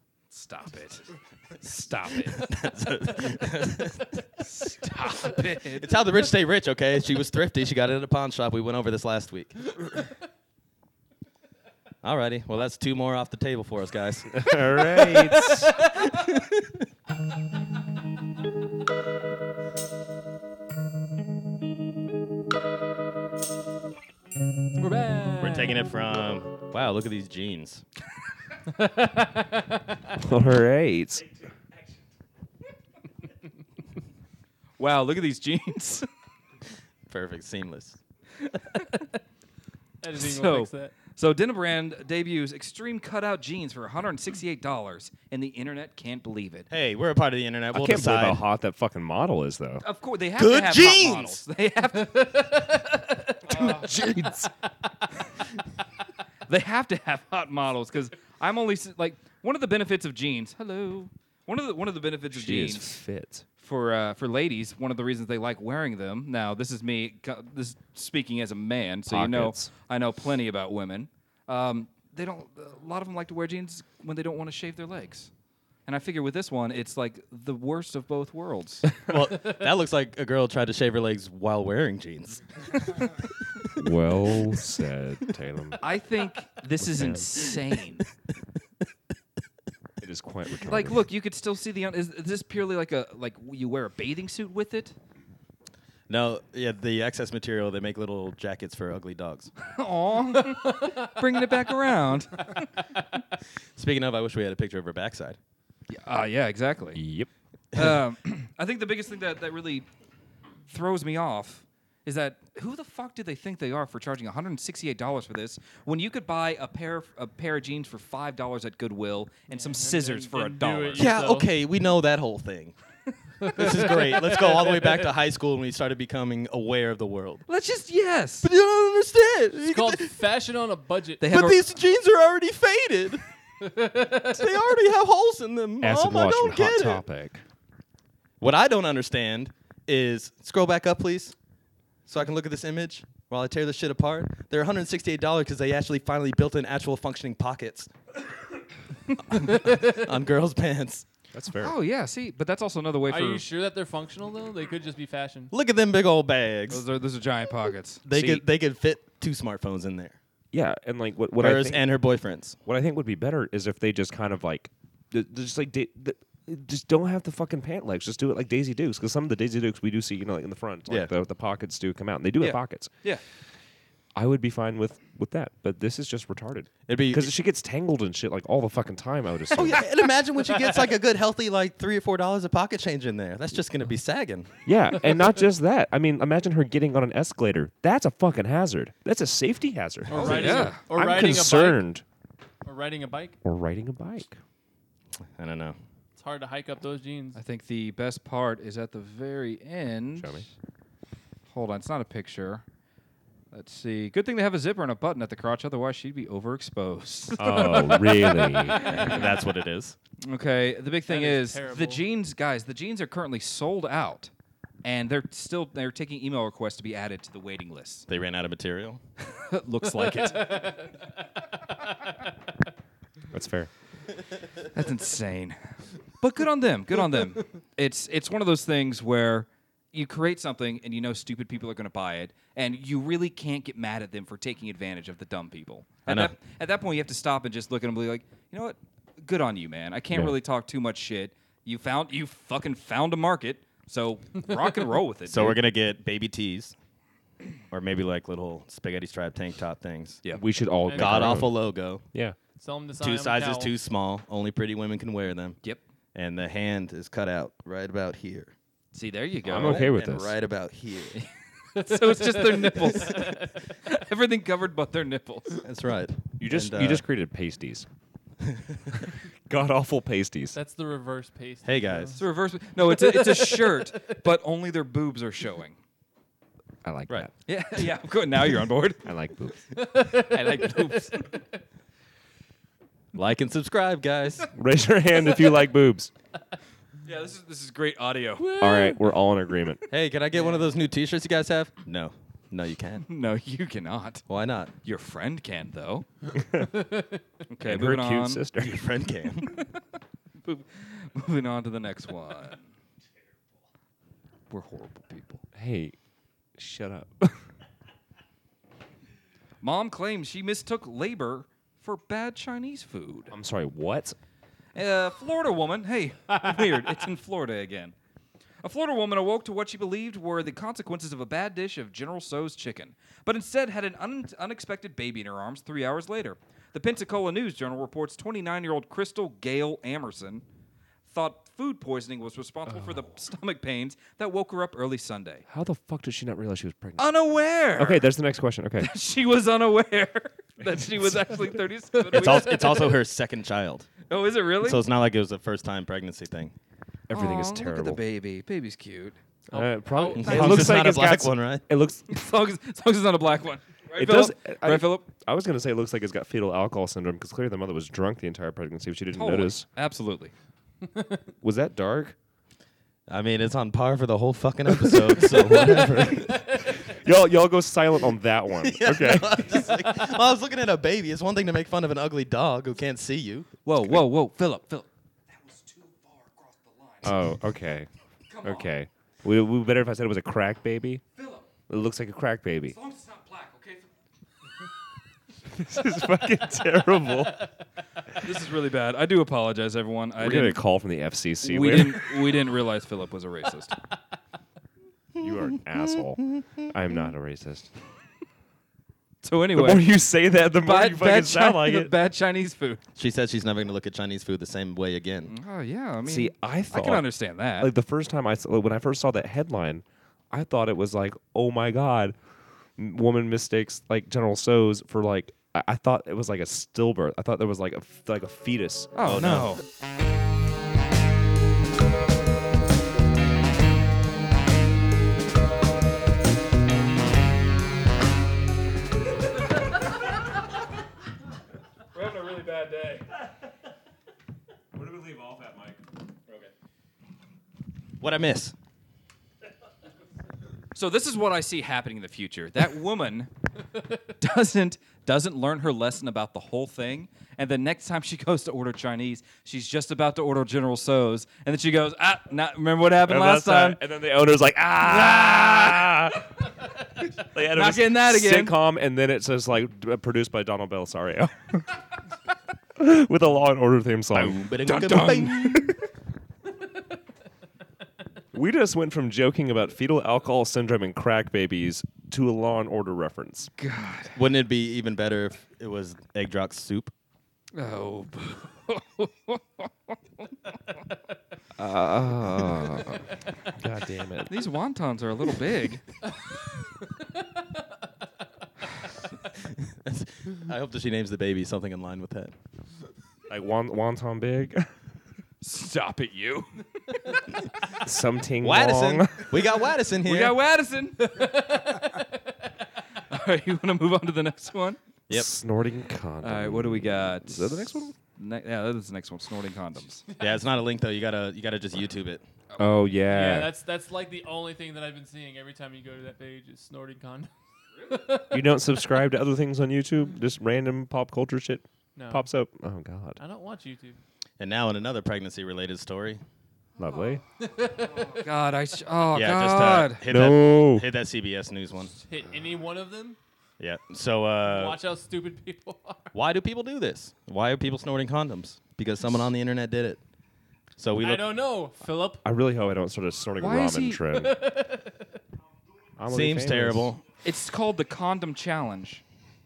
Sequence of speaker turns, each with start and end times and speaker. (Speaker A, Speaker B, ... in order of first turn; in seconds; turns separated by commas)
Speaker A: 0.3-2.5, Speaker B: 2.4-4.2, Speaker A: 4.4-6.0, Speaker B: 5.8-9.7, Speaker B: 12.0-14.4, Speaker C: 14.3-15.7, Speaker D: 15.1-16.1, Speaker B: 16.1-16.8, Speaker D: 24.8-25.8, Speaker B: 25.4-27.8, Speaker D: 28.7-30.1, Speaker C: 30.2-31.2, Speaker E: 31.1-32.1, Speaker A: 34.8-36.1, Speaker B: 37.1-38.0, Speaker D: 40.0-41.0, Speaker A: 40.1-46.7, Speaker B: 46.7-48.4, Speaker C: 47.7-49.8, Speaker A: 49.8-52.6, Speaker B: 50.4-51.4, Speaker D: 52.1-53.8, Speaker A: 53.5-53.9, Speaker C: 53.6-54.5, Speaker A: 56.5-62.9, Speaker C: 62.3-63.5, Speaker A: 63.6-75.3, Speaker C: 69.1-69.7, Speaker A: 75.9-78.9, Speaker B: 79.1-82.8, Speaker C: 83.8-85.8, Speaker A: 85.8-88.1, Speaker C: 86.8-87.4, Speaker C: 90.0-91.0, Speaker A: 90.6-95.0, Speaker B: 96.1-99.5, Speaker A: 99.7-102.7, Speaker D: 100.5-101.1, Speaker B: 103.8-105.4, Speaker A: 105.9-107.0, Speaker C: 107.0-107.3, Speaker A: 107.8-109.9, Speaker A: 110.7-121.1, Speaker D: 119.5-121.5, Speaker B: 121.0-122.8, Speaker D: 123.4-125.0, Speaker B: 123.5-127.4, Speaker A: 127.5-128.5, Speaker B: 128.4-130.2, Speaker D: 129.6-131.3, Speaker A: 131.2-131.6, Speaker B: 131.2-133.2, Speaker D: 133.6-134.6, Speaker B: 134.2-137.0, Speaker C: 135.8-137.4, Speaker B: 138.4-141.4, Speaker B: 142.1-147.9, Speaker B: 149.2-151.1, Speaker C: 151.3-151.8, Speaker A: 151.6-153.4, Speaker D: 153.1-155.5, Speaker B: 155.5-156.8, Speaker A: 156.7-158.4, Speaker B: 158.1-160.2, Speaker C: 160.5-161.9, Speaker B: 161.4-162.6, Speaker C: 162.7-172.9, Speaker C: 174.2-179.8, Speaker B: 176.9-177.3, Speaker B: 179.5-184.5, Speaker C: 184.7-192.0, Speaker D: 190.1-191.8, Speaker A: 190.1-190.8, Speaker D: 192.6-193.4, Speaker C: 193.4-194.4, Speaker B: 195.4-195.8, Speaker D: 196.2-197.4, Speaker A: 197.4-200.4, Speaker C: 200.2-200.5, Speaker A: 201.5-202.6, Speaker A: 203.5-209.4, Speaker C: 207.4-208.9, Speaker B: 209.0-210.0, Speaker A: 210.3-214.3, Speaker D: 211.1-212.0, Speaker A: 214.8-218.1, Speaker B: 218.1-219.0, Speaker A: 219.3-220.9, Speaker D: 220.2-220.9, Speaker C: 223.3-223.7, Speaker A: 224.7-225.6, Speaker A: 226.2-245.6, Speaker B: 236.1-236.3, Speaker B: 245.3-246.8, Speaker B: 247.7-250.2, Speaker C: 250.4-251.5, Speaker D: 250.9-251.3, Speaker B: 250.9-252.1, Speaker D: 252.6-253.7, Speaker B: 253.0-255.6, Speaker B: 256.1-258.5, Speaker A: 258.9-259.9, Speaker C: 259.4-260.3, Speaker B: 259.6-261.2, Speaker A: 261.1-265.6, Speaker D: 261.9-263.4, Speaker B: 265.6-267.0, Speaker C: 266.4-267.9, Speaker B: 268.4-268.9, Speaker C: 269.5-270.6, Speaker D: 270.5-272.2, Speaker B: 271.6-272.2, Speaker A: 272.2-275.8, Speaker D: 273.0-273.9, Speaker C: 276.8-277.3, Speaker A: 277.5-279.1, Speaker C: 279.0-279.7, Speaker D: 279.8-281.4, Speaker A: 280.1-281.4, Speaker B: 283.1-284.5, Speaker C: 284.5-286.1, Speaker A: 287.1-288.6, Speaker D: 288.4-289.0, Speaker C: 288.6-289.8, Speaker B: 289.9-293.1, Speaker A: 293.1-294.2, Speaker B: 294.3-294.7, Speaker A: 294.8-296.1, Speaker A: 297.5-298.4, Speaker C: 297.6-298.9, Speaker B: 298.6-299.6, Speaker A: 300.4-302.6, Speaker A: 304.5-305.4, Speaker C: 305.6-306.0, Speaker C: 306.6-307.5, Speaker A: 309.6-313.3, Speaker C: 313.3-314.2, Speaker A: 314.8-317.9, Speaker A: 318.6-330.4, Speaker A: 331.0-335.4, Speaker C: 332.7-333.1, Speaker C: 335.5-337.1, Speaker A: 337.0-338.1, Speaker C: 337.8-338.9, Speaker A: 338.8-342.7, Speaker B: 342.1-343.9, Speaker A: 344.1-344.8, Speaker B: 344.6-346.5, Speaker C: 347.1-348.0, Speaker A: 347.1-349.2, Speaker D: 349.5-350.8, Speaker C: 349.5-352.1, Speaker B: 350.2-351.6, Speaker A: 352.1-355.1, Speaker C: 354.0-359.7, Speaker A: 359.1-360.3, Speaker D: 360.9-361.2, Speaker C: 361.4-362.2, Speaker B: 363.1-366.4, Speaker C: 364.8-369.7, Speaker B: 368.6-373.5, Speaker A: 373.7-377.3, Speaker C: 377.0-377.9, Speaker A: 378.3-378.7, Speaker C: 378.4-381.0, Speaker A: 381.2-381.5, Speaker C: 381.7-382.8, Speaker A: 382.7-383.9, Speaker C: 385.5-387.5, Speaker A: 388.2-390.6, Speaker C: 390.2-392.3, Speaker A: 391.4-393.8, Speaker C: 395.2-397.7, Speaker A: 399.2-399.9, Speaker C: 399.5-401.9, Speaker A: 400.6-402.8, Speaker B: 403.0-405.3, Speaker A: 405.3-407.7, Speaker C: 406.1-407.1, Speaker C: 407.6-412.2, Speaker C: 412.8-418.9, Speaker A: 418.9-419.6, Speaker B: 419.1-419.5, Speaker A: 431.9-433.1, Speaker E: 434.7-436.5, Speaker B: 438.0-438.6, Speaker A: 440.8-443.3, Speaker A: 444.2-453.8, Speaker C: 453.0-456.3, Speaker A: 454.8-456.2, Speaker C: 457.2-461.7, Speaker A: 457.4-458.6, Speaker C: 462.8-464.4, Speaker B: 464.2-465.8, Speaker A: 464.2-465.8, Speaker C: 468.3-473.5, Speaker A: 473.6-474.2, Speaker B: 474.1-476.9, Speaker A: 477.5-480.3, Speaker C: 481.6-482.9, Speaker A: 481.6-483.0, Speaker C: 483.5-484.3, Speaker A: 484.3-485.8, Speaker B: 489.4-492.3, Speaker C: 493.3-494.7, Speaker A: 495.4-497.4, Speaker C: 497.8-499.4, Speaker B: 498.4-500.4, Speaker A: 500.1-502.0, Speaker D: 501.1-502.0, Speaker A: 503.1-504.8, Speaker C: 505.1-507.9, Speaker A: 506.2-510.0, Speaker B: 510.2-512.2, Speaker A: 512.5-512.9, Speaker C: 512.6-513.5, Speaker D: 513.1-517.3, Speaker D: 517.8-518.4, Speaker C: 518.3-523.2, Speaker D: 522.0-522.2, Speaker D: 523.2-524.0, Speaker B: 524.4-526.2, Speaker C: 526.8-527.2, Speaker D: 527.4-528.2, Speaker A: 528.0-530.0, Speaker B: 529.1-531.9, Speaker C: 530.1-530.9, Speaker D: 532.0-533.2, Speaker B: 533.6-534.8, Speaker D: 534.4-536.1, Speaker B: 536.1-540.0, Speaker B: 540.8-541.4, Speaker D: 541.0-542.2, Speaker C: 542.2-544.4, Speaker A: 543.4-544.1, Speaker D: 544.2-545.2, Speaker E: 545.4-546.0, Speaker C: 546.0-546.9, Speaker B: 546.1-547.0, Speaker A: 547.2-549.0